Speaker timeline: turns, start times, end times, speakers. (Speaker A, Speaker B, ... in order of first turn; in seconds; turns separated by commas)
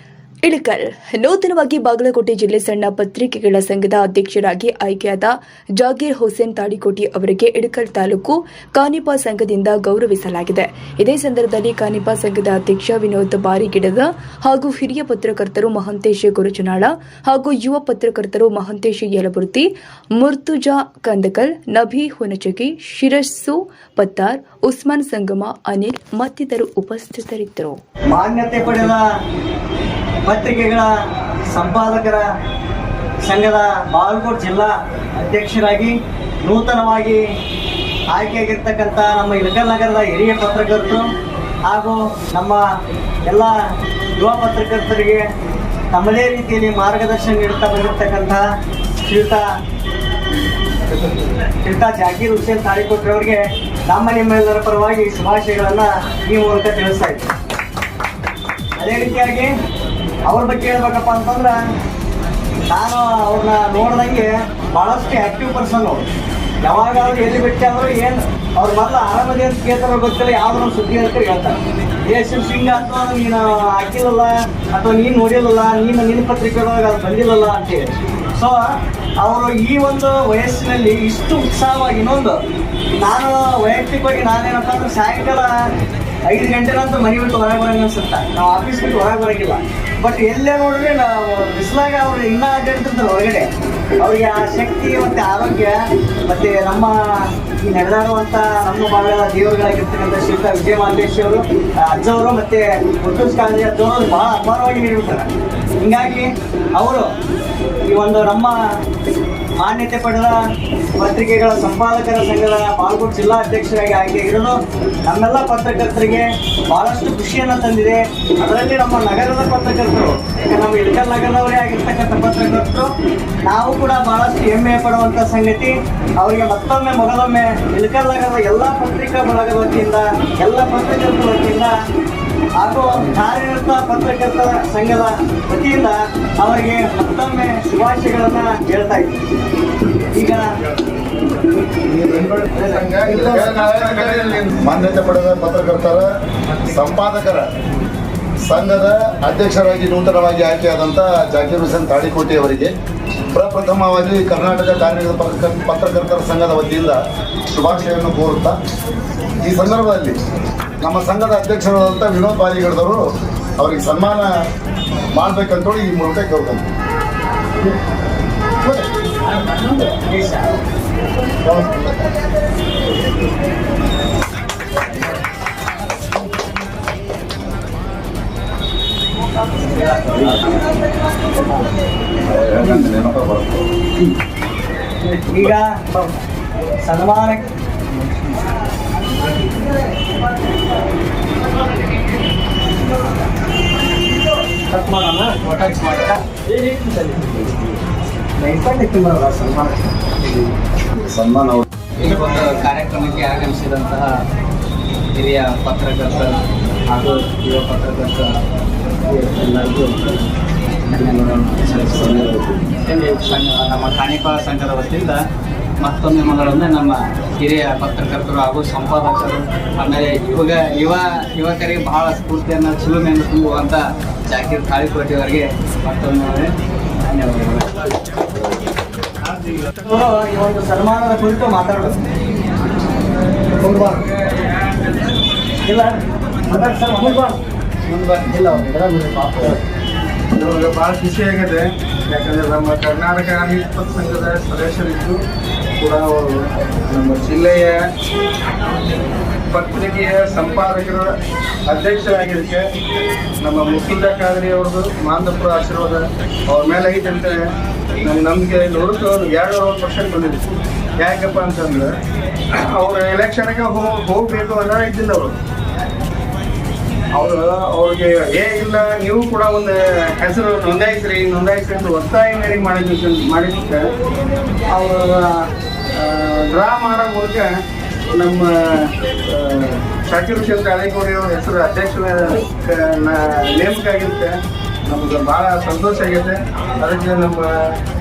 Speaker A: 0.4-27.8, Speaker B: 28.1-29.0, Speaker B: 30.2-30.9, Speaker B: 31.5-32.2, Speaker B: 33.2-37.2, Speaker B: 38.1-41.1, Speaker B: 41.6-42.6, Speaker B: 43.2-43.5, Speaker B: 44.2-45.2, Speaker B: 45.9-48.4, Speaker B: 49.0-49.4, Speaker B: 51.4-57.3, Speaker B: 58.8-59.5, Speaker B: 60.3-61.5, Speaker B: 62.7-66.0, Speaker B: 66.6-78.6, Speaker B: 79.2-82.3, Speaker B: 83.0-85.5, Speaker B: 86.3-93.5, Speaker B: 94.0-95.7, Speaker B: 96.3-96.9, Speaker B: 97.6-107.1, Speaker B: 107.8-108.5, Speaker B: 109.6-110.3, Speaker B: 111.0-114.5, Speaker B: 115.1-122.9, Speaker B: 123.4-131.7, Speaker B: 132.6-139.2, Speaker B: 140.1-140.5, Speaker C: 141.8-146.1, Speaker B: 142.5-142.9, Speaker D: 142.7-144.4, Speaker C: 146.6-147.5, Speaker C: 148.4-152.7, Speaker C: 153.2-157.0, Speaker C: 157.5-158.6, Speaker C: 159.4-160.2, Speaker C: 160.8-163.1, Speaker C: 163.6-164.3, Speaker C: 165.1-166.7, Speaker B: 169.4-170.5, Speaker C: 171.4-171.9, Speaker E: 179.8-180.3, Speaker C: 182.3-183.6, Speaker B: 185.0-186.1, Speaker B: 186.8-187.5, Speaker B: 194.7-195.2, Speaker E: 195.2-197.6, Speaker B: 198.4-199.6, Speaker E: 198.5-200.4, Speaker C: 200.9-201.6, Speaker E: 202.0-204.2, Speaker E: 205.1-208.4, Speaker E: 209.1-210.2, Speaker E: 210.8-215.2, Speaker C: 212.1-212.5, Speaker E: 215.8-227.9, Speaker B: 229.8-232.0, Speaker B: 233.6-234.1, Speaker B: 235.6-237.4, Speaker D: 240.3-245.2, Speaker D: 245.8-247.8, Speaker D: 249.5-251.1, Speaker D: 251.7-252.7, Speaker D: 253.4-257.4, Speaker D: 258.0-261.9, Speaker D: 262.5-265.3, Speaker D: 267.1-273.9, Speaker D: 274.7-277.5, Speaker D: 278.1-284.3, Speaker D: 284.9-287.7